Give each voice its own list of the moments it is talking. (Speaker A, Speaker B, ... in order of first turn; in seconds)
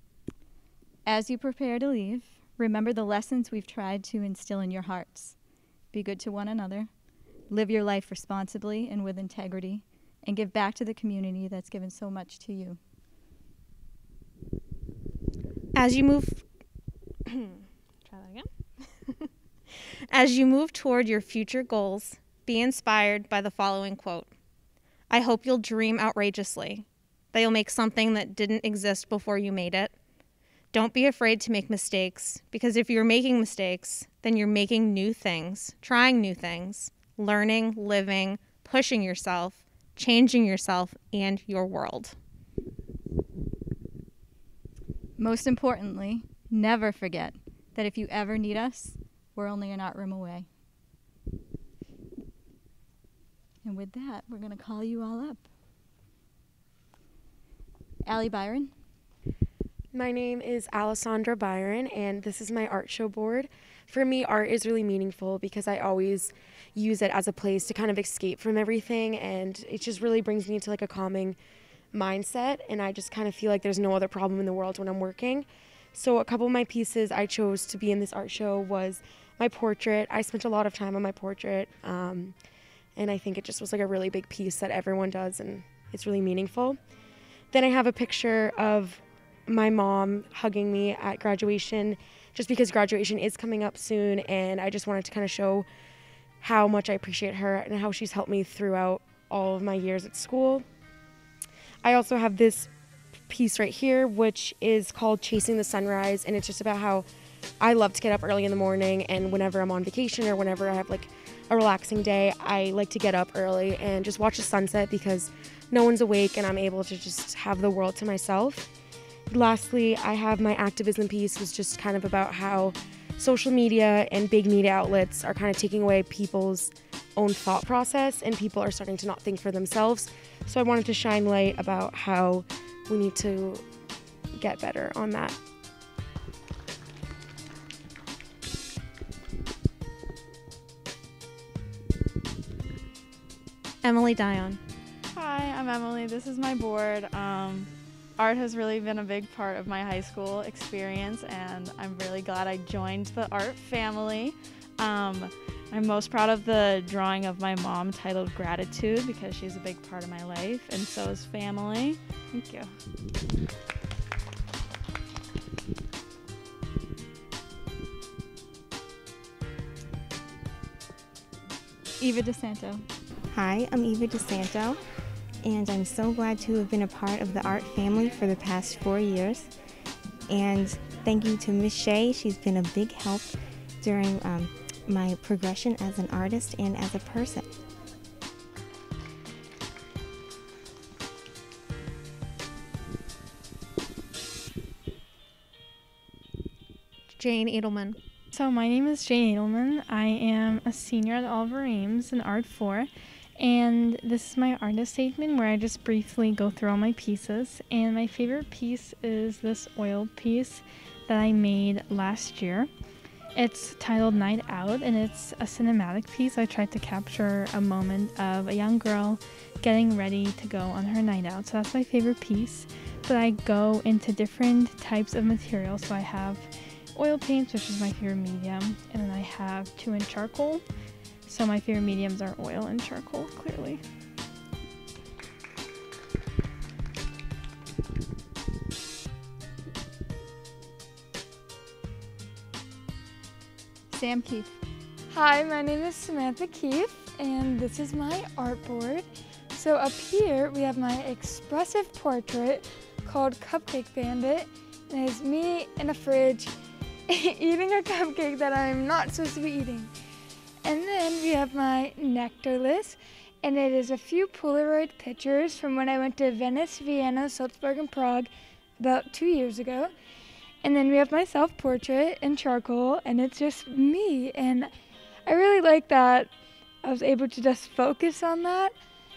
Speaker A: 1.1-5.3, 5.9-6.9, 7.5-12.8, 45.2-50.5, 53.6-55.4, 58.0-58.7, 172.0-172.8, 243.9-244.6
Speaker B: 15.7-16.4, 17.3-18.5, 20.1-24.3, 25.1-29.9, 30.7-42.1, 143.8-144.6, 197.1-198.0
Speaker C: 59.9-71.4, 71.9-82.3, 83.0-86.8, 87.5-95.7, 96.4-100.7, 101.8-102.7, 103.3-107.1, 107.6-118.7, 119.3-133.6, 134.4-135.4
Speaker D: 145.1-162.8
Speaker E: 173.3-174.8, 175.4-179.5, 180.3-187.5
Speaker F: 198.3-212.7, 213.3-230.6, 231.2-233.8
Speaker G: 245.1-256.5, 257.1-259.9, 260.6-269.9, 270.6-274.7, 275.2-276.3, 276.8-278.7